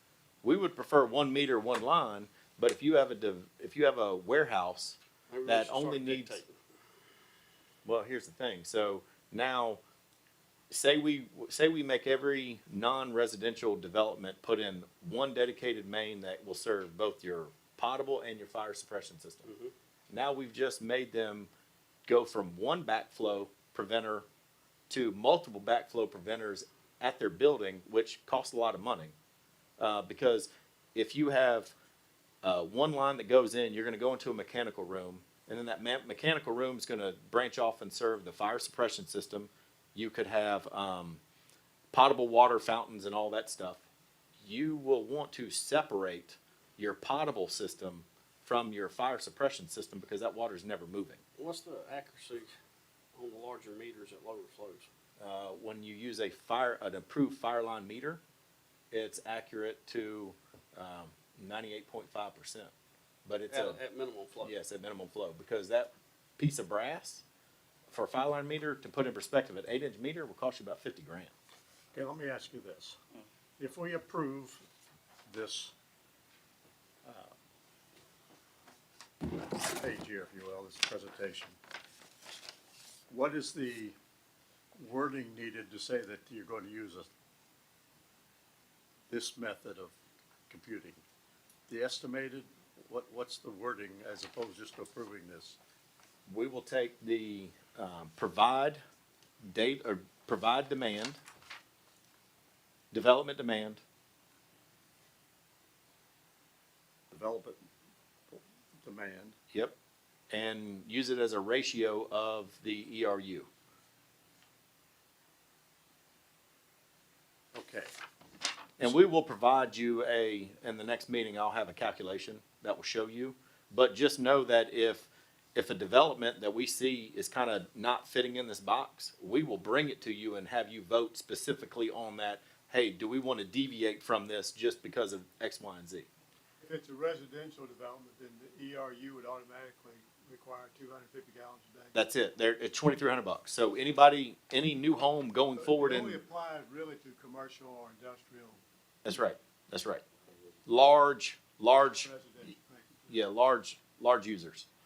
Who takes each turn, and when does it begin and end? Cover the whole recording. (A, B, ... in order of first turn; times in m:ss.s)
0:00.4-0:06.4 A
0:05.3-0:06.5 B
0:07.8-0:09.8 A
0:10.7-0:19.5 A
0:19.5-0:19.7 B
0:20.1-0:21.5 A
0:22.1-0:24.2 A
0:24.9-0:29.1 A
0:29.8-0:31.7 A
0:32.4-0:41.2 A
0:41.9-0:43.8 A
0:44.4-0:51.2 A
0:51.4-0:52.5 B
0:53.2-0:54.9 B
0:55.2-0:58.2 A
0:58.9-1:02.7 A
1:03.2-1:03.8 A
1:03.5-1:04.5 B
1:04.4-1:07.2 A
1:07.9-1:11.3 A
1:11.9-1:13.0 C
1:13.6-1:14.6 C
1:15.3-1:15.7 C
1:17.0-1:17.3 C
1:19.7-1:21.6 C
1:23.1-1:24.0 C
1:24.8-1:27.1 C
1:29.1-1:29.9 C
1:30.5-1:31.0 C
1:31.7-1:35.6 C
1:36.3-1:38.8 A
1:39.4-1:41.2 A
1:42.9-1:43.8 A
1:47.1-1:47.6 C
1:48.3-1:49.4 C
1:50.3-1:53.5 A
1:57.5-1:57.9 C
1:58.8-2:16.1 A
2:16.6-2:22.0 D
2:21.9-2:26.2 A
2:25.5-2:28.6 D
2:29.0-2:30.0 A
2:30.7-2:32.1 A
2:31.9-2:33.2 D
2:33.1-2:34.7 A